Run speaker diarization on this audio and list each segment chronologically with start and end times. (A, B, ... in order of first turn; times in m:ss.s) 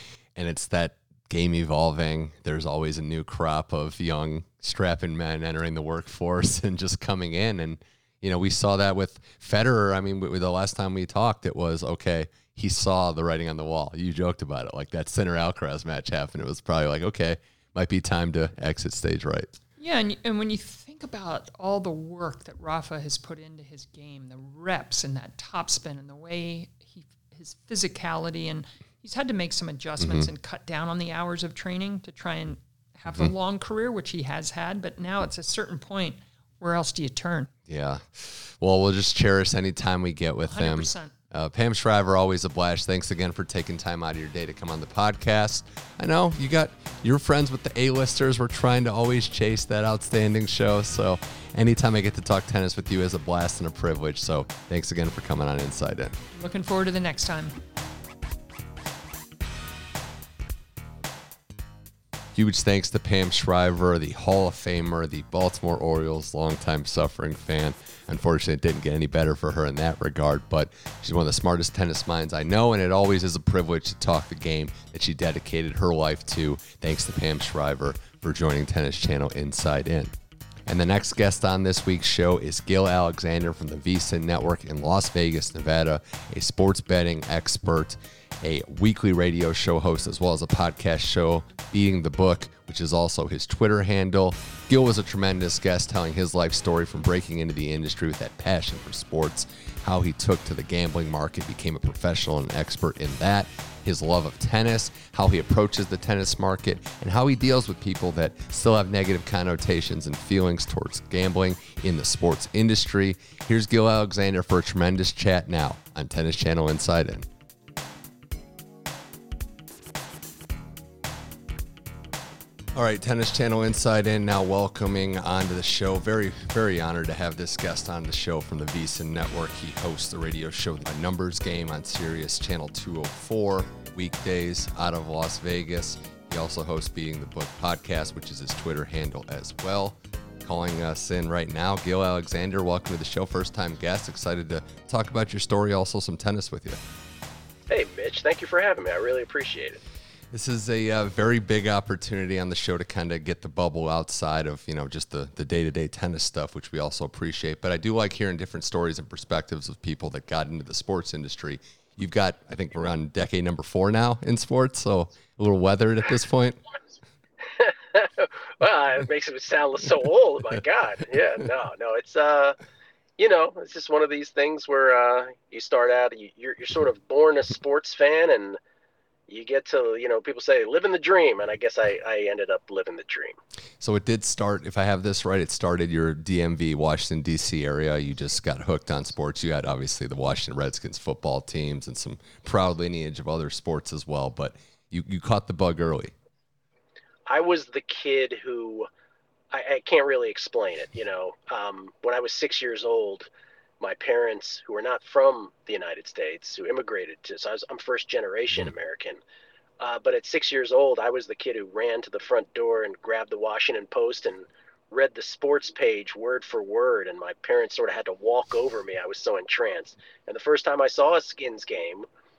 0:00.4-0:19.5 A
0:19.8-0:37.5 B
0:30.0-0:30.3 A
0:37.7-0:56.2 A
0:40.4-0:41.1 B
0:56.3-0:57.5 B
1:02.3-1:20.1 A
1:20.6-1:57.3 A
2:02.7-2:26.8 A
2:27.7-2:29.8 C
2:30.3-2:46.6 A
2:47.6-2:52.6 C
2:53.2-2:58.6 C
2:59.3-3:03.4 C
3:03.8-3:16.1 A
3:17.3-3:18.9 C
3:19.5-3:29.2 C
3:29.8-3:42.1 C